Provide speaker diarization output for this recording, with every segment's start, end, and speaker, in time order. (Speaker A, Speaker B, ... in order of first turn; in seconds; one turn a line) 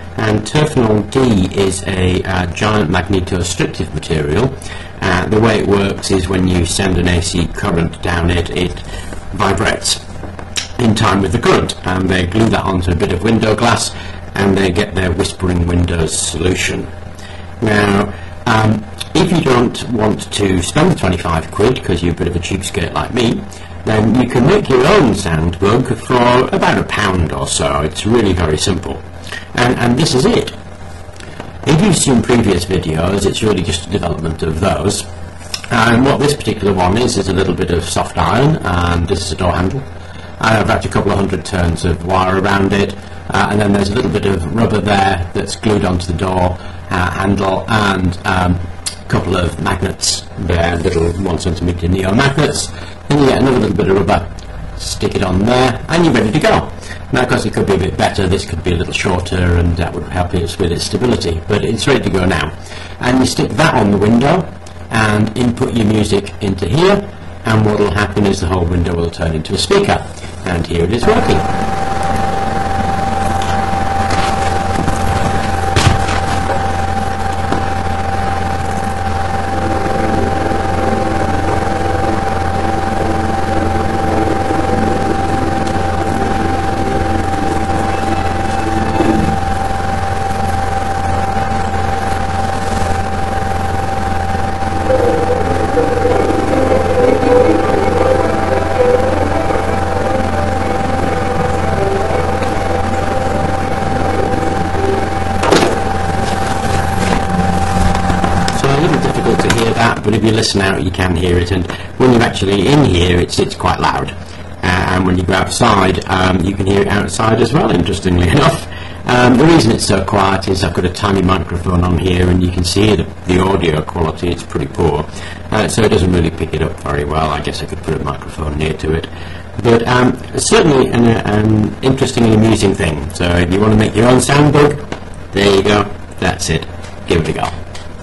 Speaker A: 0.2-10.0
Speaker A: 10.8-16.9
Speaker A: 17.6-29.0
Speaker A: 29.5-30.5
Speaker A: 31.6-35.1
Speaker A: 35.7-39.9
Speaker A: 40.4-71.5
Speaker A: 108.5-137.6